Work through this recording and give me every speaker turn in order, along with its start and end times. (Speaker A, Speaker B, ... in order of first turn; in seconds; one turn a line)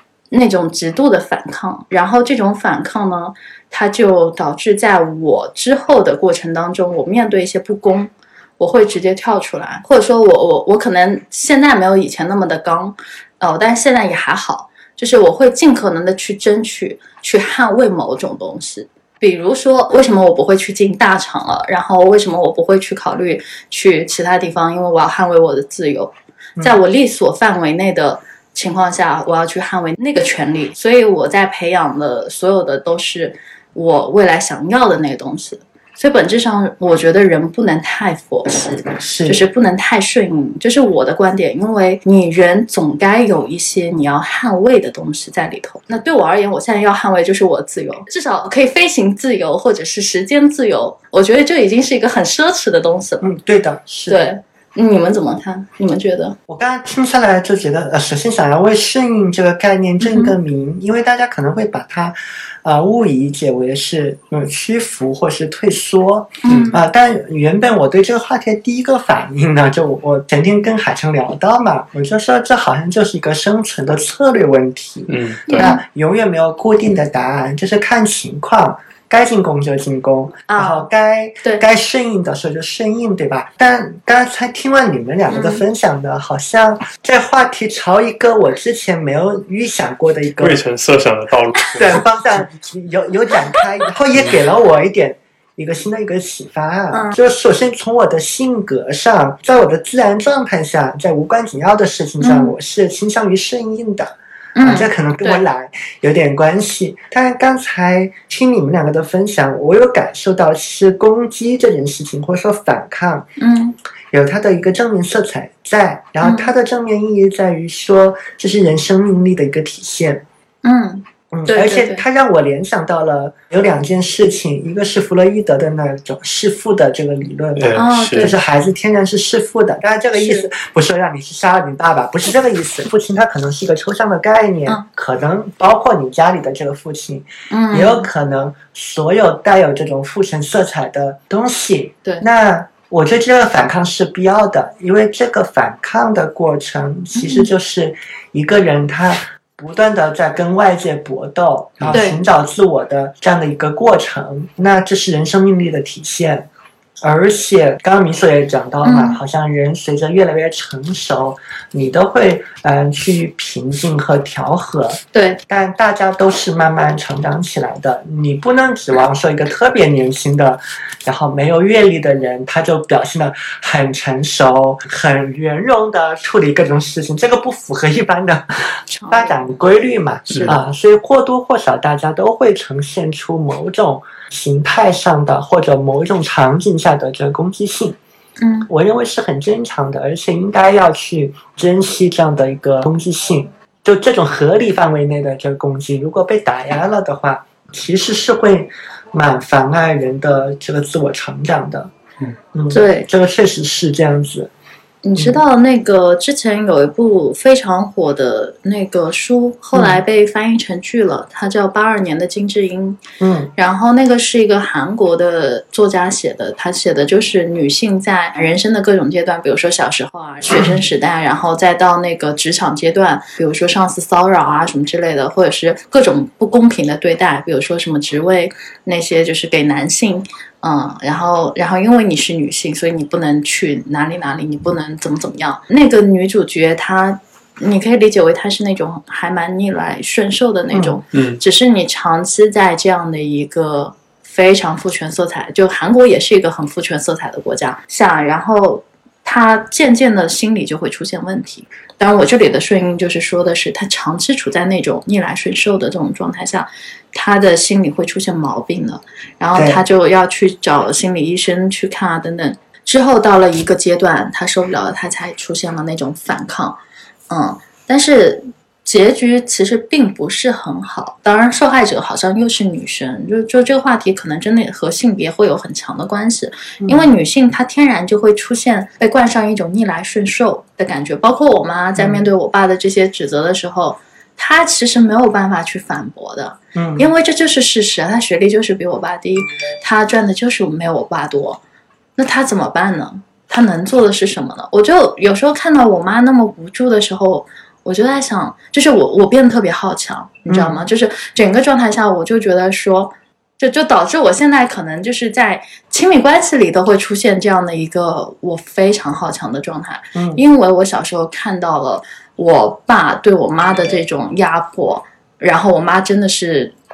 Speaker A: 0.3-53.2
Speaker B: 39.0-39.4
Speaker B: 53.2-54.2
Speaker A: 54.1-56.4
Speaker B: 56.5-90.6
Speaker A: 60.0-60.4
Speaker A: 66.4-66.8
Speaker C: 66.5-66.8
Speaker C: 75.1-75.7
Speaker A: 75.5-75.8
Speaker A: 80.5-80.9
Speaker A: 85.3-85.6
Speaker C: 90.4-92.0
Speaker B: 91.8-113.3
Speaker A: 96.9-97.2
Speaker A: 102.2-102.5
Speaker A: 104.5-105.4
Speaker A: 113.4-113.8
Speaker B: 114.1-120.2
Speaker A: 116.2-116.5
Speaker A: 120.6-122.0
Speaker B: 121.3-156.5
Speaker C: 127.5-128.3
Speaker A: 127.8-128.4
Speaker A: 130.2-130.5
Speaker A: 137.5-138.1
Speaker A: 147.2-147.5
Speaker A: 151.9-152.2
Speaker B: 157.0-188.0
Speaker A: 158.8-159.2
Speaker A: 165.1-165.4
Speaker A: 178.9-179.5
Speaker C: 180.3-180.5
Speaker A: 180.3-180.6
Speaker A: 188.4-188.7
Speaker B: 188.7-201.9
Speaker B: 202.5-204.5
Speaker A: 202.7-203.1
Speaker A: 205.0-213.0
Speaker B: 205.2-205.4
Speaker B: 209.7-210.0
Speaker B: 213.2-213.5
Speaker A: 213.6-266.8
Speaker B: 220.5-220.8
Speaker B: 240.7-241.0
Speaker C: 241.1-241.4
Speaker B: 259.5-259.8
Speaker A: 267.3-291.6
Speaker B: 276.8-277.1
Speaker B: 282.0-282.2
Speaker B: 286.8-287.1
Speaker A: 292.2-316.7
Speaker B: 300.5-300.8
Speaker B: 310.1-310.4